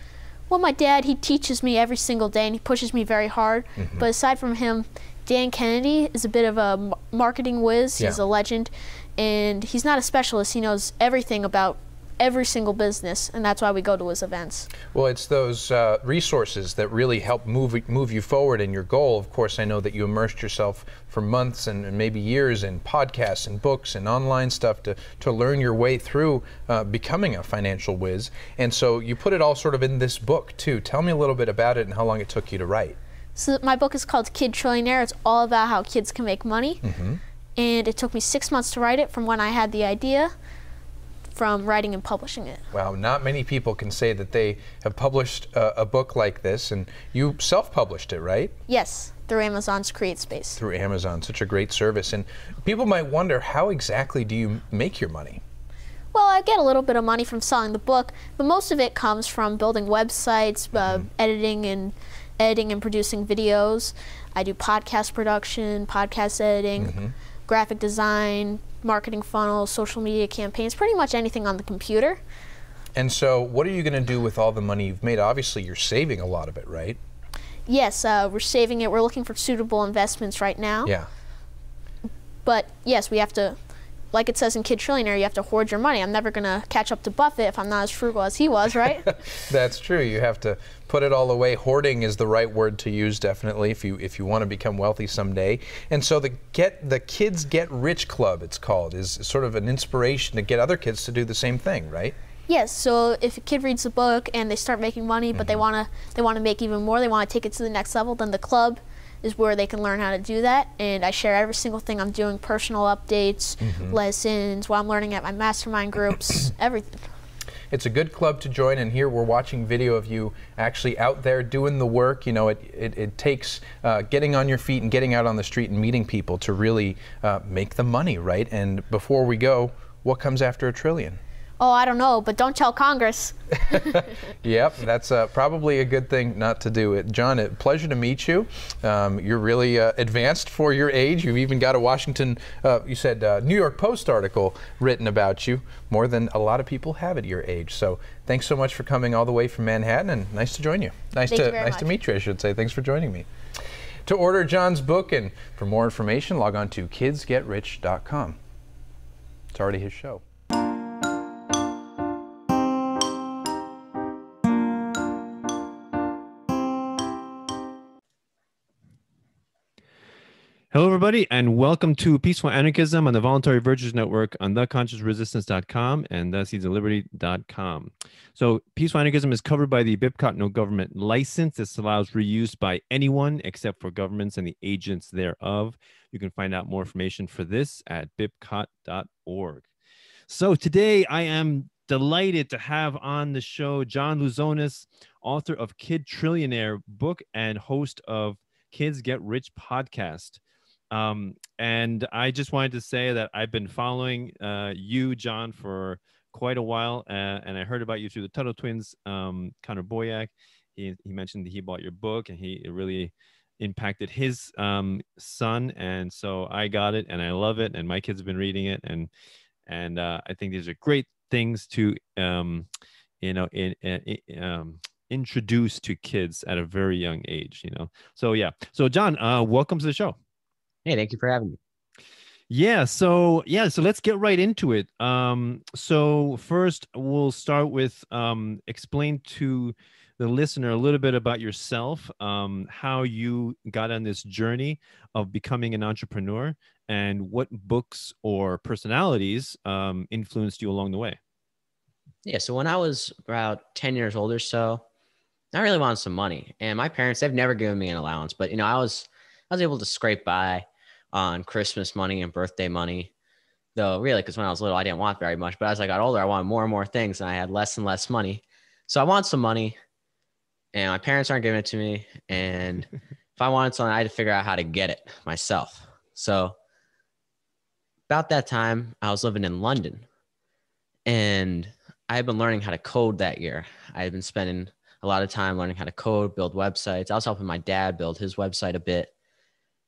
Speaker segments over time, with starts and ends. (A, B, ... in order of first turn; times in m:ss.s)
0:00.5-0:14.7 A
0:03.8-0:04.1 B
0:14.9-0:33.0 B
0:33.4-0:36.8 A
0:36.8-0:37.2 B
0:37.6-0:40.3 A
0:41.3-0:42.6 A
0:42.7-0:48.5 B
0:48.7-0:50.6 A
0:50.6-0:55.4 B
0:56.1-1:07.0 A
1:00.8-1:01.1 B
1:06.8-1:07.1 B
1:07.5-1:12.2 A
1:13.0-1:17.0 B
1:17.7-1:20.9 A
1:22.4-1:23.6 A
1:24.1-1:29.2 A
1:29.4-1:42.2 B
1:42.5-1:57.1 A
1:45.4-1:45.6 B
1:53.6-1:54.0 B
1:57.7-2:11.2 B
2:11.6-2:14.0 A
2:13.7-2:33.3 B
2:31.3-2:31.9 A
2:34.1-2:38.4 B
2:39.5-2:40.2 B
2:50.7-3:09.7 C
3:10.3-3:20.4 C
3:20.9-3:39.1 C
3:39.7-3:42.7 C
3:43.2-3:50.2 C
3:50.9-3:51.6 D
3:52.5-4:11.2 C
4:12.2-4:14.8 D
4:15.5-4:23.1 D
4:23.8-4:29.8 D
4:30.7-4:36.6 D
4:38.1-4:40.0 D
4:41.1-4:49.1 D